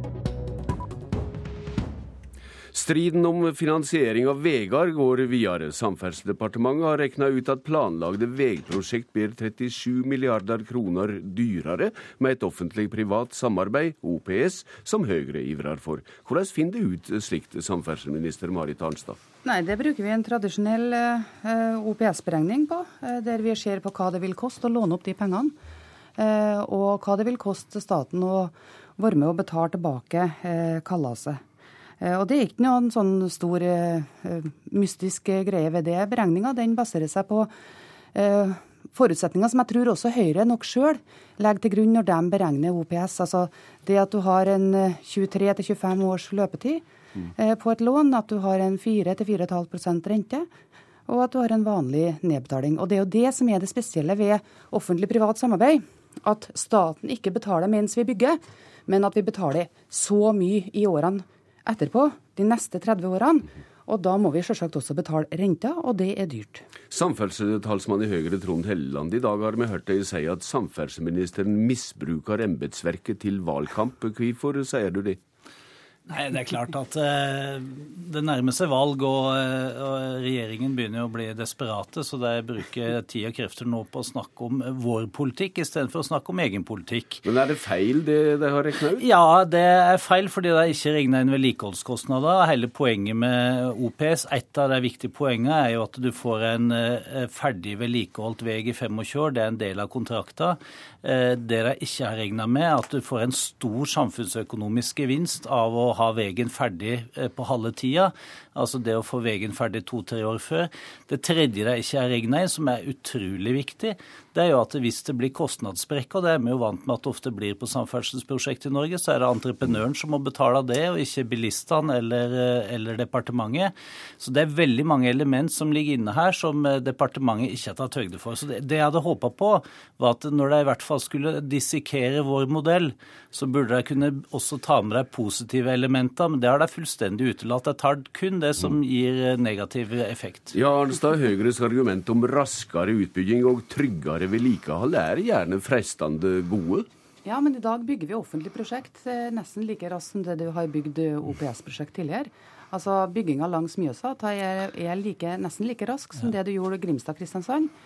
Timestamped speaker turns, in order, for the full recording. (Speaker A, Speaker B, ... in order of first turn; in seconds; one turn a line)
Speaker A: 2.7-19.2
Speaker B: 19.4-25.6
Speaker B: 26.2-31.4
Speaker B: 32.0-37.5
Speaker B: 38.1-46.8
Speaker B: 47.4-50.5
Speaker B: 51.1-66.7
Speaker A: 66.9-75.2
Speaker C: 76.1-87.2
Speaker A: 87.2-89.1
Speaker C: 89.0-140.6
Speaker A: 140.5-146.9
Speaker B: 147.2-157.7